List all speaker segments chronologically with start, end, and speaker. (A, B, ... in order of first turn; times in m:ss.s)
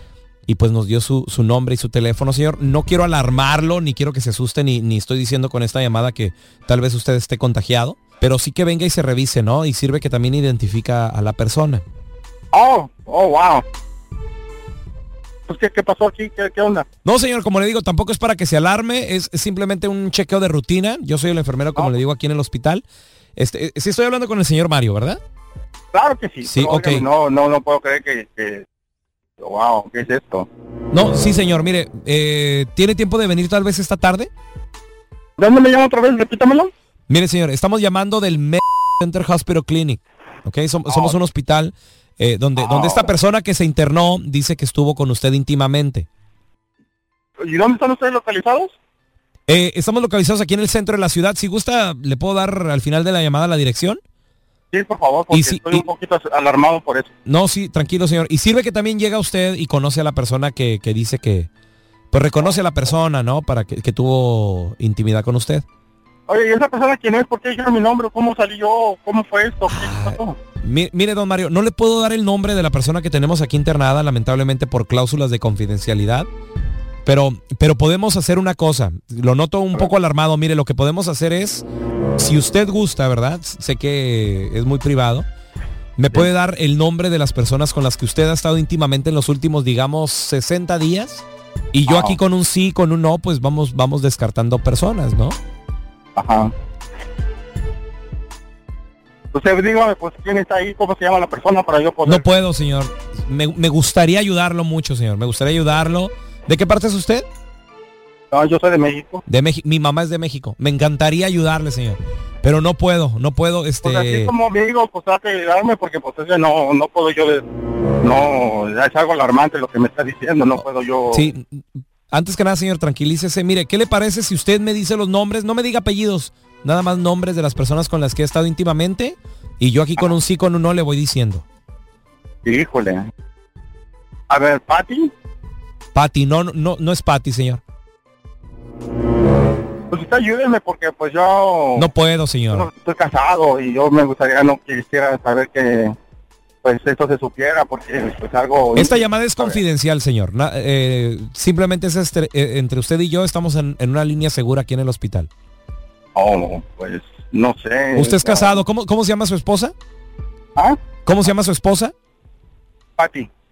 0:00.5-0:11.8 A
0:12.5-0:13.6 B
0:15.5-0:16.8 B
0:17.0-0:22.8 A
0:23.4-0:25.2 A
0:25.9-0:28.6 B
0:26.4-0:27.1 A
0:29.4-0:30.5 B
0:30.9-0:34.3 A
0:35.4-0:36.7 B
0:37.1-0:46.1 A
0:40.9-0:41.2 B
0:42.6-0:43.1 B
0:47.4-0:48.8 B
0:49.5-0:54.0 A
0:54.7-0:57.1 B
0:55.3-0:55.8 A
0:57.3-1:01.5 A
1:02.1-1:05.6 A
1:06.3-1:10.4 B
1:09.7-1:16.3 A
1:17.1-1:21.6 A
1:22.2-1:25.3 A
1:26.0-1:35.4 A
1:31.9-1:32.2 B
1:36.2-1:36.5 B
1:39.3-1:42.2 B
1:42.0-1:47.3 A
1:48.3-1:49.2 B
1:49.3-1:54.3 A
1:53.8-1:57.4 B
1:58.0-2:01.3 B
2:01.1-2:11.4 A
2:12.4-2:13.1 B
2:14.3-2:15.1 B
2:16.0-2:17.6 A
2:19.9-2:21.9 B
2:21.8-2:22.7 A
2:22.5-2:26.0 B
2:26.6-2:29.6 B
2:28.8-2:35.3 A
2:36.2-2:38.6 B
2:38.0-2:39.7 A
2:41.0-2:41.9 A
2:43.0-2:43.3 B